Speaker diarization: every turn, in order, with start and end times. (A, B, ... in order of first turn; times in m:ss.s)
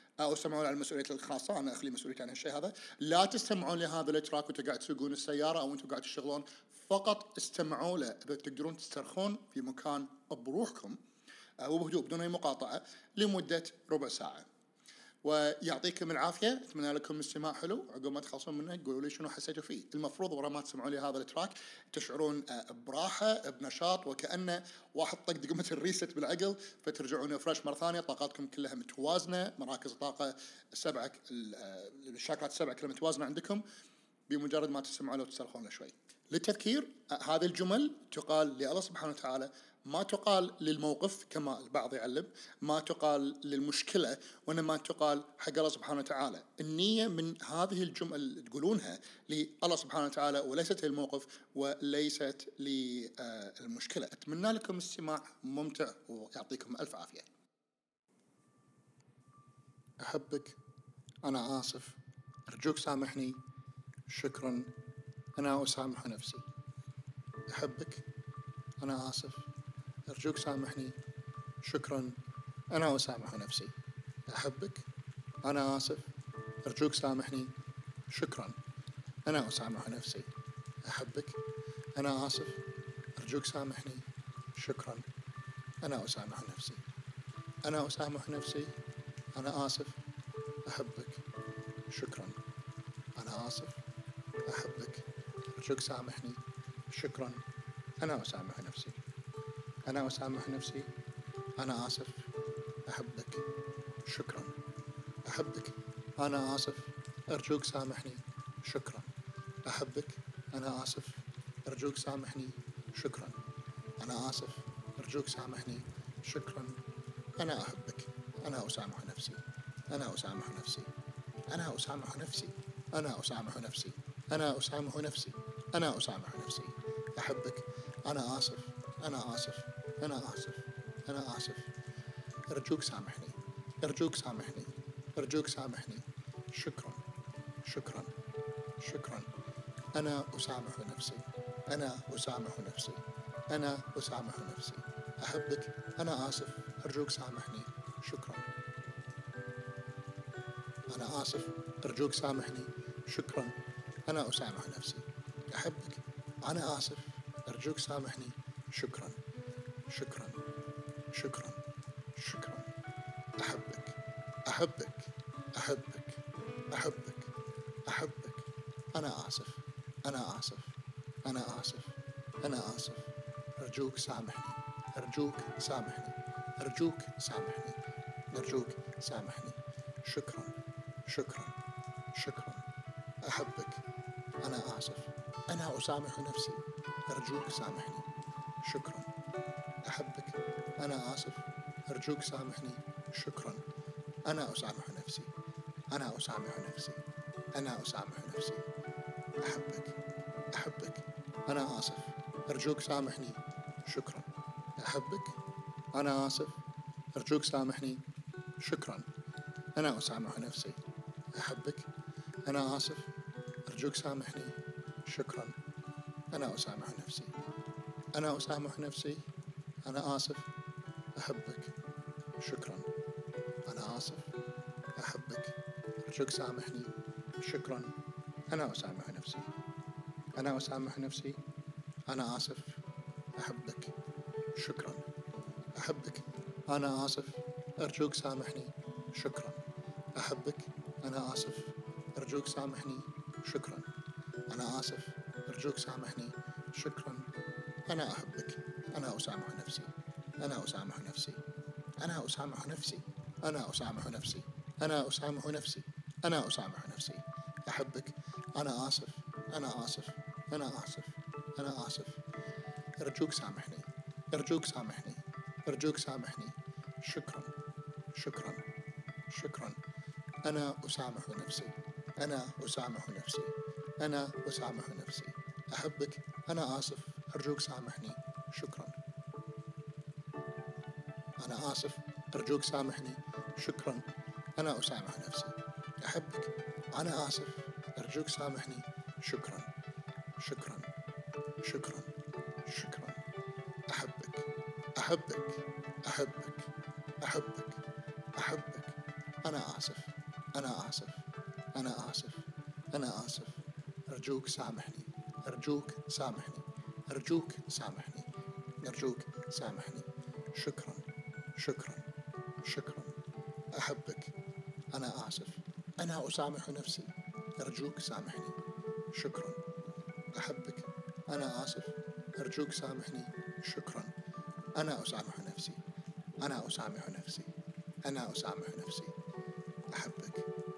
0:00.2-0:11.0 A
0:11.6-0:14.5 A
0:15.2-0:33.6 A
0:34.3-0:57.3 A
1:00.0-1:00.6 A
1:01.2-1:03.4 A
1:04.1-1:04.7 A
1:05.4-1:06.5 A
1:07.5-1:08.1 A
1:08.8-1:09.5 A
1:10.1-1:11.0 A
1:11.6-1:13.8 A
1:14.3-1:14.9 A
1:15.4-1:16.1 A
1:16.6-1:17.5 A
1:18.1-1:18.6 A
1:19.2-1:20.3 A
1:20.8-1:21.4 A
1:22.0-1:25.1 A
1:25.8-1:26.8 A
1:27.6-1:28.8 A
1:29.3-1:30.0 A
1:30.6-1:31.3 A
1:31.9-1:32.4 A
1:33.2-1:33.8 A
1:34.4-1:37.4 A
1:38.0-1:39.0 A
1:39.8-1:40.9 A
1:41.6-1:42.3 A
1:42.8-1:43.5 A
1:44.0-1:44.6 A
1:45.2-1:49.1 A
1:49.6-1:53.4 A
1:54.0-1:56.8 A
1:57.4-2:00.9 A
2:01.5-2:11.7 A
2:12.5-2:17.0 A
2:17.6-2:18.2 A
2:18.8-2:19.3 A
2:19.9-2:28.5 A
2:30.9-2:39.2 A
2:39.9-2:40.4 A
2:41.1-2:41.6 A
2:42.2-2:42.7 A
2:43.4-2:47.3 A
2:47.9-2:57.8 A
2:58.3-3:00.6 A
3:01.1-3:01.6 A
3:02.1-3:02.6 A
3:03.2-3:03.8 A
3:04.4-3:08.1 A
3:08.6-3:09.1 A
3:09.8-3:13.6 A
3:14.2-3:15.3 A
3:15.9-3:17.0 A
3:17.5-3:18.7 A
3:19.4-3:20.0 A
3:20.5-3:25.4 A
3:25.9-3:26.6 A
3:27.1-3:28.0 A
3:28.6-3:29.1 A
3:29.8-3:30.8 A
3:31.3-3:31.9 A
3:32.4-3:33.1 A
3:33.7-3:35.6 A
3:36.3-3:37.4 A
3:38.1-3:39.3 A
3:39.8-3:40.5 A
3:41.2-3:41.8 A
3:42.4-3:42.9 A
3:43.6-3:44.3 A
3:44.9-3:48.0 A
3:48.5-3:49.5 A
3:50.4-3:51.4 A
3:52.1-3:52.8 A
3:53.4-3:53.9 A
3:54.5-3:55.0 A
3:55.7-3:59.6 A
4:00.1-4:03.9 A
4:04.5-4:07.3 A
4:07.9-4:11.4 A
4:12.0-4:22.2 A
4:23.0-4:27.5 A
4:28.1-4:28.6 A
4:29.3-4:29.8 A
4:30.4-4:39.0 A
4:41.4-4:49.7 A
4:50.4-4:50.9 A
4:51.6-4:53.2 A
4:53.9-4:57.8 A
4:58.4-5:08.3 A
5:08.8-5:12.1 A
5:12.6-5:13.2 A
5:13.7-5:14.4 A
5:14.9-5:19.6 A
5:20.3-5:24.1 A
5:24.8-5:25.8 A
5:26.4-5:27.5 A
5:28.0-5:29.2 A
5:29.9-5:30.5 A